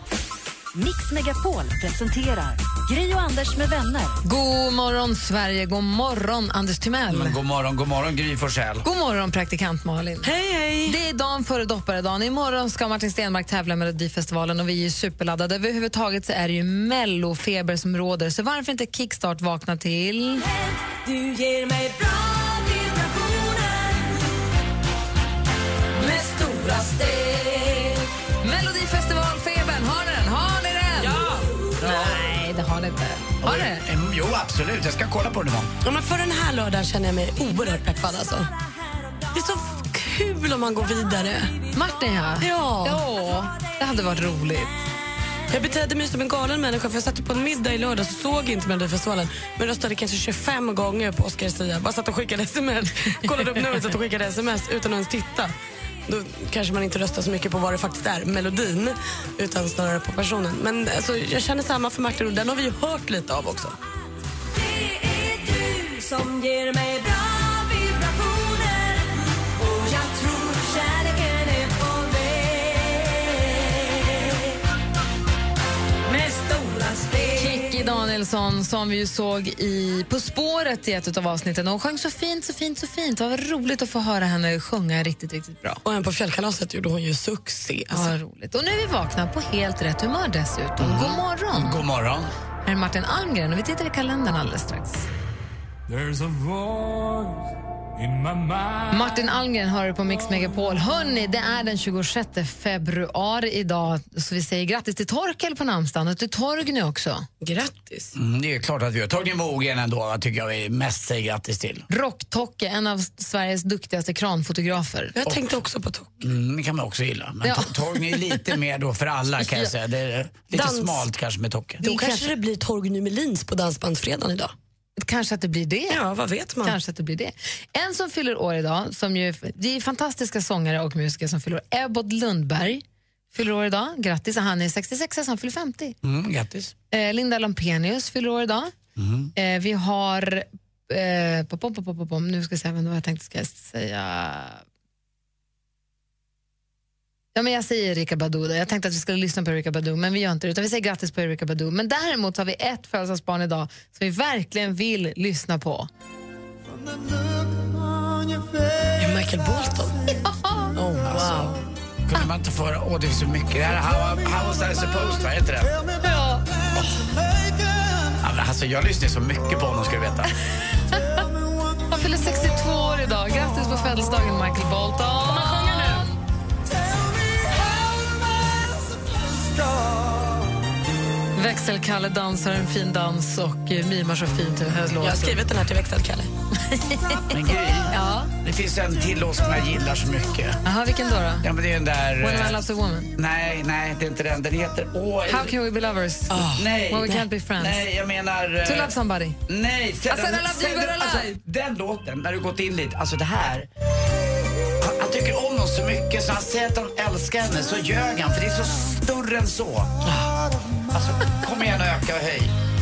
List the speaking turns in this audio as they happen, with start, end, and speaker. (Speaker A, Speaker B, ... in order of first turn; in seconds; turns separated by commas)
Speaker A: 0.7-4.2, Speaker B: 4.2-7.4, Speaker C: 7.1-8.9, Speaker B: 8.8-10.3, Speaker D: 10.2-11.0, Speaker B: 10.9-20.5, Speaker E: 21.0-23.9, Speaker E: 26.1-27.9, Speaker B: 28.4-33.9, Speaker C: 31.8-32.2, Speaker C: 33.4-35.7, Speaker D: 35.8-38.5, Speaker D: 39.3-41.6, Speaker B: 41.7-44.7, Speaker D: 42.4-43.0, Speaker D: 45.5-55.5, Speaker D: 56.1-63.8, Speaker E: 65.1-69.0, Speaker E: 69.6-73.1, Speaker E: 76.1-77.2, Speaker B: 77.3-85.8, Speaker D: 85.8-88.2, Speaker B: 87.9-91.8, Speaker C: 90.8-92.3, Speaker B: 92.6-95.1, Speaker F: 95.9-97.2, Speaker F: 98.0-98.8, Speaker B: 98.9-107.3, Speaker D: 107.4-108.1, Speaker C: 108.1-111.9, Speaker B: 111.9-115.2, Speaker D: 115.2-116.1, Speaker C: 116.2-121.8, Speaker B: 117.4-118.5, Speaker D: 120.5-121.0, Speaker B: 121.8-122.3, Speaker D: 121.8-124.5, Speaker B: 125.0-126.0, Speaker D: 125.9-126.8, Speaker B: 126.6-136.0, Speaker C: 136.0-136.7, Speaker B: 136.9-138.8, Speaker C: 139.0-139.3, Speaker B: 139.3-144.6, Speaker B: 147.3-155.9, Speaker D: 159.0-160.1, Speaker B: 160.3-160.8, Speaker D: 160.8-161.6, Speaker C: 161.1-161.4, Speaker C: 162.1-165.8, Speaker B: 166.0-166.4, Speaker C: 166.7-167.1, Speaker C: 168.2-170.3, Speaker B: 171.9-176.1, Speaker D: 175.5-176.0, Speaker B: 181.3-185.4, Speaker D: 185.0-186.3, Speaker B: 186.7-188.3, Speaker C: 187.3-190.6, Speaker B: 190.7-191.5, Speaker C: 191.4-192.6, Speaker B: 192.2-193.1, Speaker C: 193.2-195.5, Speaker B: 195.3-197.8, Speaker D: 196.3-197.2, Speaker C: 196.5-198.9, Speaker B: 198.6-199.4, Speaker C: 199.5-203.7, Speaker B: 200.1-201.4, Speaker C: 204.8-210.1, Speaker C: 210.9-212.5